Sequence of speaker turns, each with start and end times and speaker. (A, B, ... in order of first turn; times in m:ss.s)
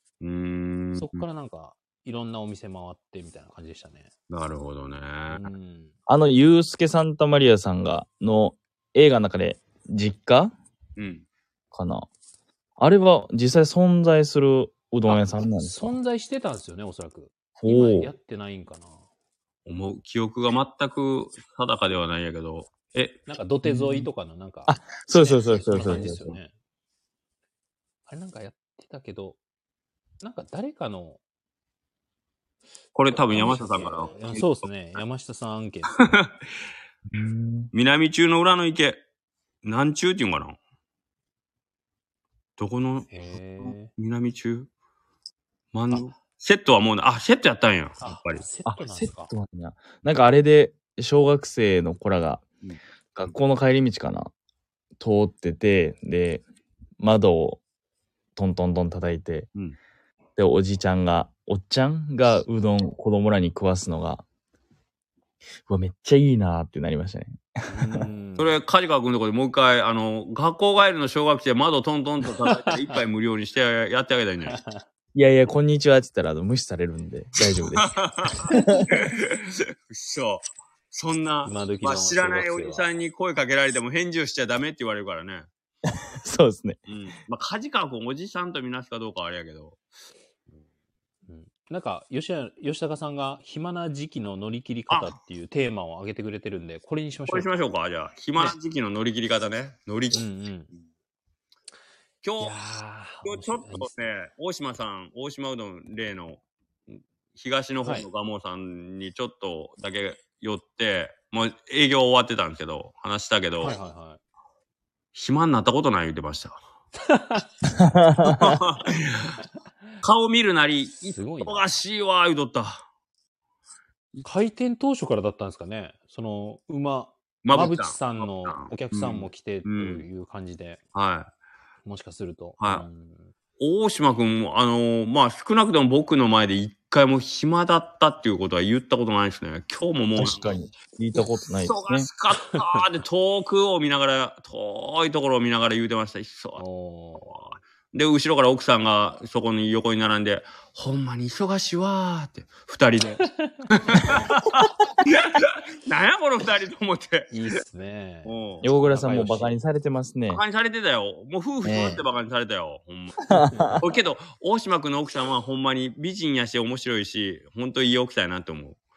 0:00.2-0:01.2 A
0:01.0-0:04.1 B
0:04.3-0:05.5 A
0:05.3-0:05.9 B
0:06.1-0:10.5 C
0:11.0-0:11.2 A
0:11.7-0:12.1 C
0:12.8-0:16.0 C
0:15.1-0:19.0 B
0:17.6-0:18.1 C
0:19.6-0:23.2 A
0:23.3-0:26.5 B
0:23.6-0:24.1 C
0:24.7-0:26.4 C
0:28.1-0:29.4 B
0:30.2-0:31.2 B
0:32.9-0:34.7 A
0:33.2-0:36.2 B
0:36.0-0:36.3 A
0:37.1-0:37.7 C
0:37.7-0:39.0 A
0:39.6-0:40.6 A
0:42.6-0:44.7 A
0:43.1-0:43.9 B
0:45.7-0:48.4 A
0:48.0-0:49.3 B
0:48.6-0:52.4 C
0:53.1-0:54.3 C
0:55.0-0:56.4 C
0:57.0-0:57.6 C
0:58.4-0:59.5 C
1:00.4-1:04.2 C
1:05.7-1:08.1 C
1:07.7-1:08.5 B
1:08.4-1:14.6 A
1:12.4-1:13.0 B
1:14.4-1:14.8 B
1:15.1-1:18.9 C
1:17.7-1:25.5 A
1:18.5-1:18.8 B
1:21.4-1:22.9 B
1:25.9-1:26.8 C
1:26.9-1:29.8 A
1:31.2-1:37.5 B
1:34.9-1:35.1 A
1:37.3-1:40.2 A
1:40.1-1:40.7 B
1:42.2-1:42.7 A
1:42.4-1:44.1 B
1:43.2-1:46.4 A
1:47.3-1:53.8 A
1:53.6-1:54.2 B
1:55.1-1:56.6 A
1:56.9-1:57.5 B
1:57.7-1:58.6 C
1:58.2-1:59.4 A
2:00.0-2:02.8 A
2:01.0-2:01.7 B
2:04.2-2:10.8 B
2:07.4-2:10.0 A
2:10.9-2:11.3 A
2:11.8-2:13.3 B
2:12.6-2:12.8 A
2:13.6-2:20.6 A
2:20.2-2:22.1 C
2:21.6-2:26.6 A
2:26.6-2:27.6 B
2:27.2-2:37.6 A
2:33.0-2:34.3 B
2:37.3-2:39.6 B
2:38.2-2:38.6 A
2:38.6-2:40.4 C
2:40.3-2:43.2 A
2:41.6-2:42.0 C
2:43.3-2:43.8 C
2:43.5-2:43.8 B
2:43.8-2:48.8 A